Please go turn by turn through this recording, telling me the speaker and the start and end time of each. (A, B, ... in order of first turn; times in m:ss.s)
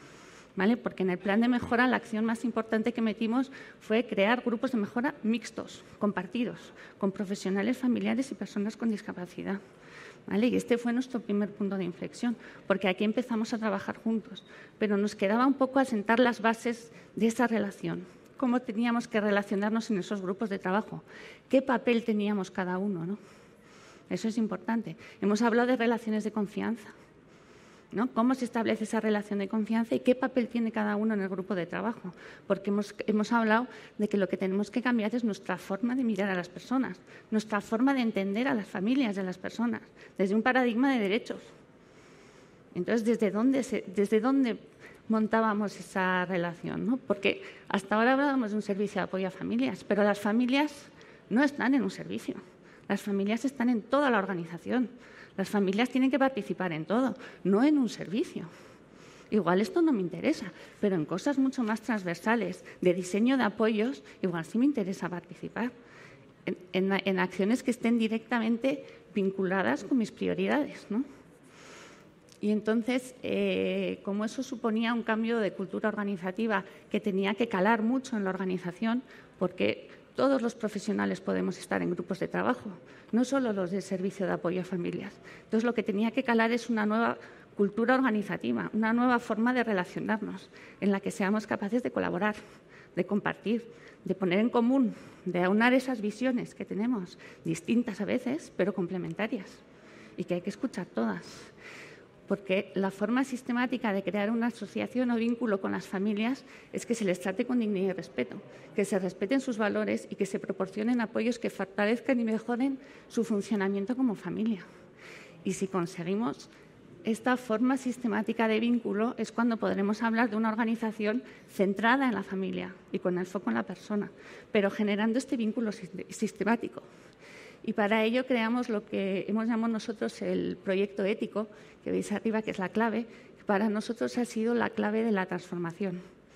0:00.6-0:09.6 A
0:10.3-0:23.2 A
0:24.1-0:26.9 A
0:27.9-0:41.5 A
0:42.7-0:58.5 A
0:59.3-1:05.7 A
1:06.5-1:11.1 A
1:12.4-1:32.4 A
1:33.0-1:39.6 A
1:40.2-1:41.5 A
1:42.3-1:54.7 A
1:55.4-1:56.5 A
1:57.0-2:06.9 A
2:07.6-2:16.0 A